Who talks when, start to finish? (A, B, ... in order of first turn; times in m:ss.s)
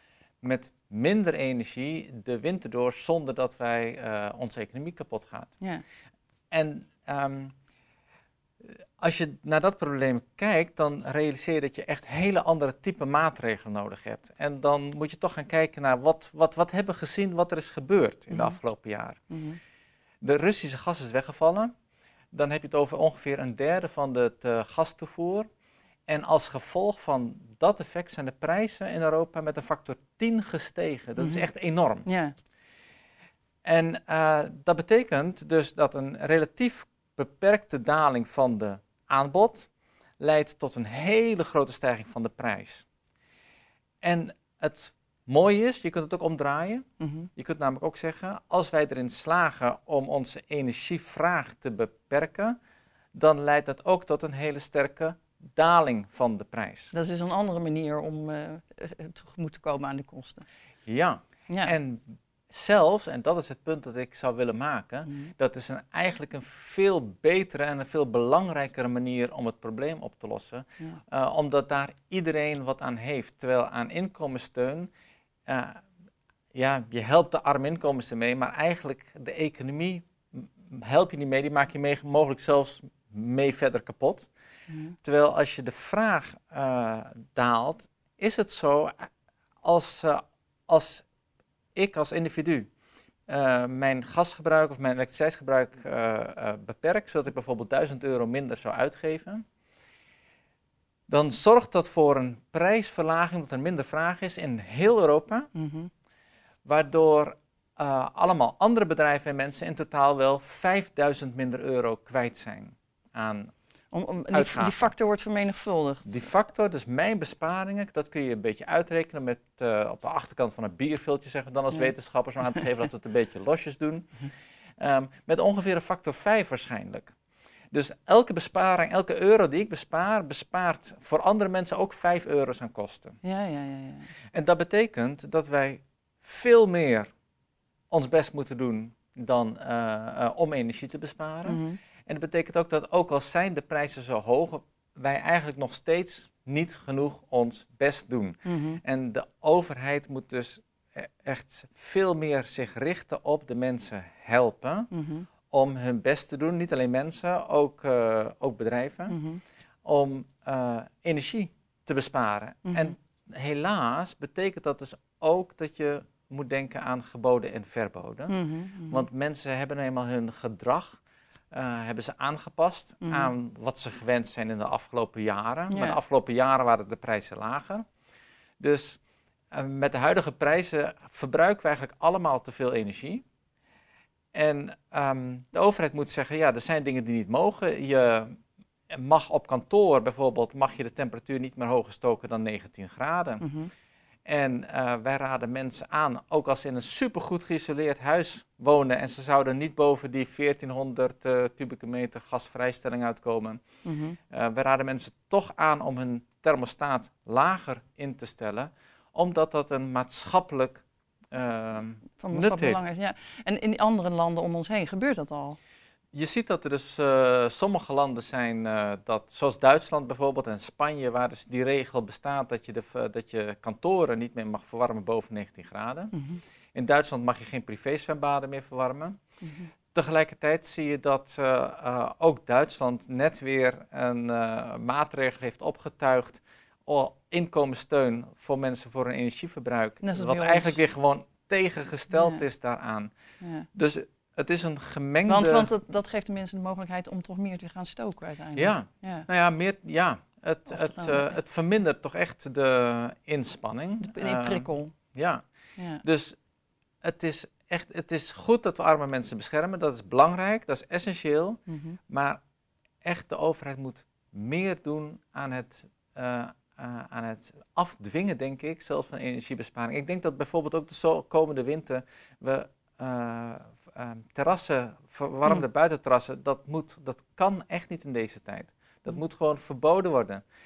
0:00.4-0:05.6 A
0:06.5-0:07.5 A
0:09.0-0:19.2 A
0:18.3-0:18.6 B
0:19.3-0:19.6 B
0:20.2-0:21.7 A
0:22.3-0:25.5 A
0:26.1-0:32.1 A
0:31.2-0:31.5 B
0:32.0-0:32.3 B
0:33.6-0:42.8 A
0:44.0-0:46.8 A
0:47.0-0:47.3 B
0:47.4-0:52.6 A
0:53.1-0:56.9 A
0:56.9-1:00.4 B
1:00.8-1:14.9 A
1:01.5-1:01.7 B
1:15.5-1:15.8 A
1:16.5-1:24.3 A
1:25.0-1:29.1 A
1:29.6-1:31.0 A
1:31.7-1:32.7 A
1:33.3-1:39.4 A
1:41.1-1:45.5 A
1:45.5-1:45.9 B
1:46.6-1:53.5 A
1:53.9-1:56.3 B
1:54.3-1:54.9 A
1:56.0-2:07.1 A
2:07.7-2:13.2 A
2:13.2-2:14.1 B
2:14.3-2:17.1 A
2:17.9-2:34.9 A
2:21.4-2:21.8 B
2:28.4-2:28.8 B
2:34.9-2:35.3 B
2:35.5-2:39.2 A
2:39.1-2:39.4 B
2:39.8-2:51.0 A
2:42.7-2:42.9 B
2:48.3-2:49.0 B
2:51.5-2:57.8 A
2:53.0-2:53.3 B
2:55.7-2:56.0 B
2:58.6-2:59.0 A
2:59.5-3:03.2 A
3:04.3-3:08.4 A
3:08.9-3:13.5 A
3:13.4-3:13.7 B
3:14.2-3:23.6 A
3:23.8-3:24.2 B
3:24.3-3:32.9 A
3:32.2-3:35.6 B
3:36.1-3:46.2 A
3:46.1-3:46.4 B
3:46.7-3:49.2 A
3:49.4-3:49.7 B
3:49.9-4:03.1 A
4:00.0-4:00.8 B
4:02.1-4:02.4 B
4:03.4-4:03.7 B
4:03.7-4:05.7 A
4:05.3-4:09.3 B
4:08.5-4:15.4 A
4:10.7-4:11.4 B
4:14.0-4:14.9 B
4:15.8-4:16.0 B
4:16.0-4:16.4 A
4:17.0-4:22.4 A
4:21.7-4:22.0 B
4:23.0-4:40.4 A